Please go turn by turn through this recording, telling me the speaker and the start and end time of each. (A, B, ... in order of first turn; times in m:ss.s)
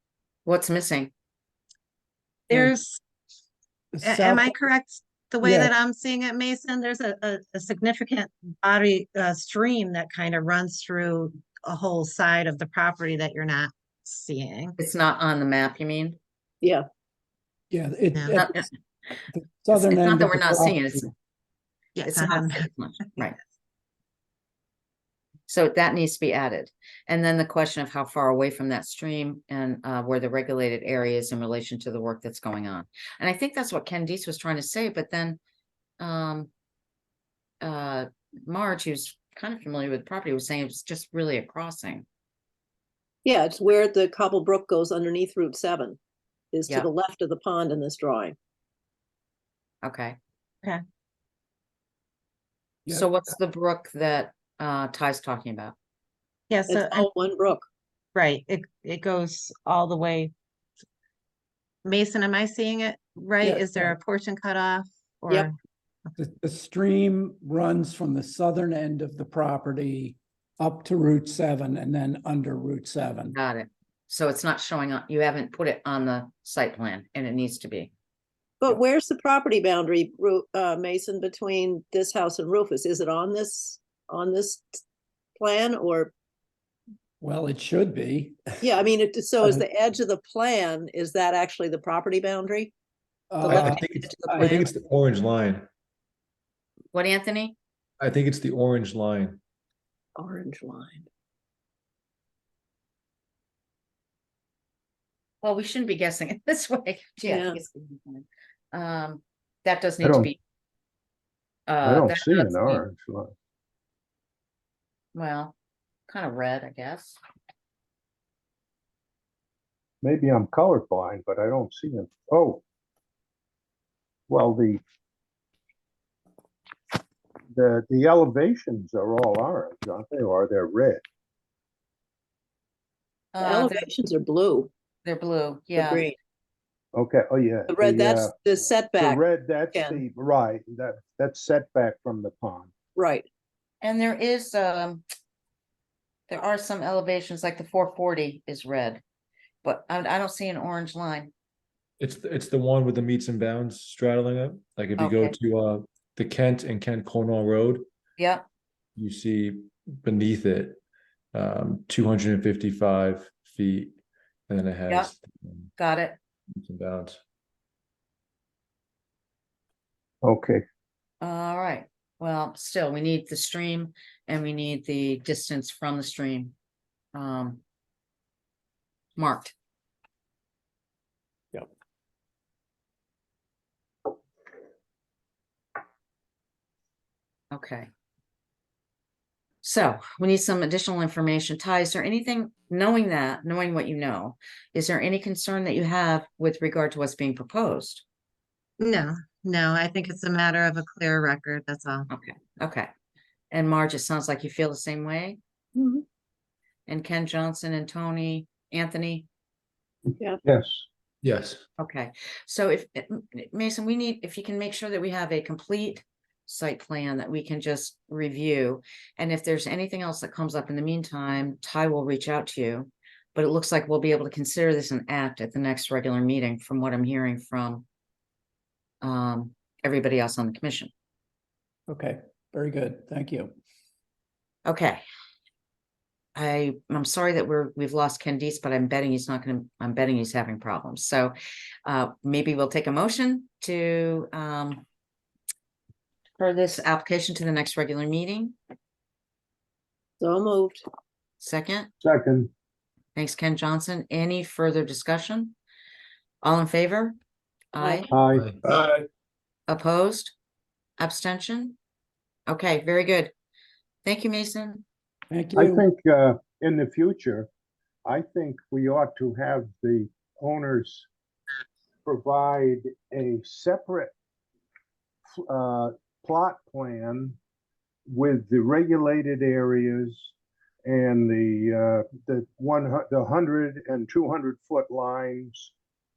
0:00.5-0:01.1 A
0:02.5-0:03.0 B
0:03.9-0:04.5 C
0:04.0-0:14.8 B
0:05.4-0:05.7 C
0:14.8-0:16.2 A
0:17.7-0:18.6 C
0:18.4-0:18.7 A
0:19.3-0:21.1 C
0:19.7-0:21.1 A
0:22.0-0:23.2 B
0:22.0-0:23.4 A
0:25.5-0:35.4 A
0:36.0-0:36.5 A
0:37.6-0:42.1 A
0:43.2-0:46.0 D
0:46.5-0:48.4 D
0:49.8-0:50.2 A
0:52.9-0:55.8 A
0:56.5-0:57.1 B
0:56.7-0:57.6 D
0:58.2-1:00.3 B
1:01.8-1:05.5 B
1:03.4-1:03.7 D
1:06.2-1:13.4 C
1:13.3-1:17.9 A
1:18.6-1:24.8 D
1:25.4-1:26.1 D
1:27.2-1:28.4 C
1:28.6-1:32.7 D
1:33.3-1:34.5 C
1:33.4-1:34.6 D
1:33.4-1:35.7 E
1:36.9-1:37.6 A
1:38.0-1:39.4 E
1:40.2-1:41.1 D
1:45.4-1:50.4 A
1:47.2-1:47.6 D
1:50.0-1:50.3 F
1:51.7-1:52.8 A
1:51.8-1:53.3 F
1:55.2-1:55.6 A
1:56.1-1:57.2 A
2:00.0-2:02.6 F
2:04.3-2:04.8 F
2:07.5-2:11.0 F
2:13.3-2:13.9 A
2:13.4-2:14.7 D
2:15.0-2:16.1 A
2:15.8-2:16.2 D
2:16.9-2:18.3 F
2:17.7-2:19.2 D
2:19.0-2:22.7 F
2:19.7-2:20.0 D
2:23.0-2:23.3 D
2:23.8-2:25.0 A
2:26.3-2:29.0 A
2:29.6-2:31.3 A
2:32.0-2:37.9 E
2:35.0-2:35.4 A
2:38.2-2:38.4 A
2:39.0-2:40.8 E
2:41.3-2:44.0 E
2:44.5-2:45.7 E
2:45.8-2:46.2 A
2:46.6-2:47.2 E
2:50.2-2:50.6 F
2:51.2-2:56.6 A
2:57.1-2:57.6 A
2:59.2-2:59.5 A
3:07.5-3:07.9 A
3:09.6-3:18.0 A
3:18.8-3:22.1 B
3:22.1-3:22.9 A
3:23.5-3:25.4 A
3:25.8-3:26.0 D
3:26.9-3:29.3 A
3:30.1-3:30.9 F
3:31.2-3:31.6 E
3:31.8-3:47.8 A
3:49.0-3:50.9 A
3:51.9-3:53.5 C
3:54.6-3:55.0 A
3:56.4-4:01.3 A
4:01.9-4:04.8 A
4:06.4-4:08.6 A
4:10.2-4:10.8 D
4:11.4-4:11.9 A
4:12.0-4:12.5 F
4:13.2-4:15.6 A
4:16.4-4:17.2 A
4:17.7-4:18.1 A
4:17.8-4:18.1 D
4:18.1-4:19.0 F
4:19.7-4:20.3 A
4:21.0-4:21.8 A
4:22.5-4:23.3 A
4:24.0-4:24.8 A
4:25.3-4:25.8 C
4:25.6-4:27.5 F
4:28.0-4:31.1 F
4:32.0-4:34.1 F
4:35.4-4:37.4 F
4:38.1-4:40.3 F
4:40.8-4:45.7 F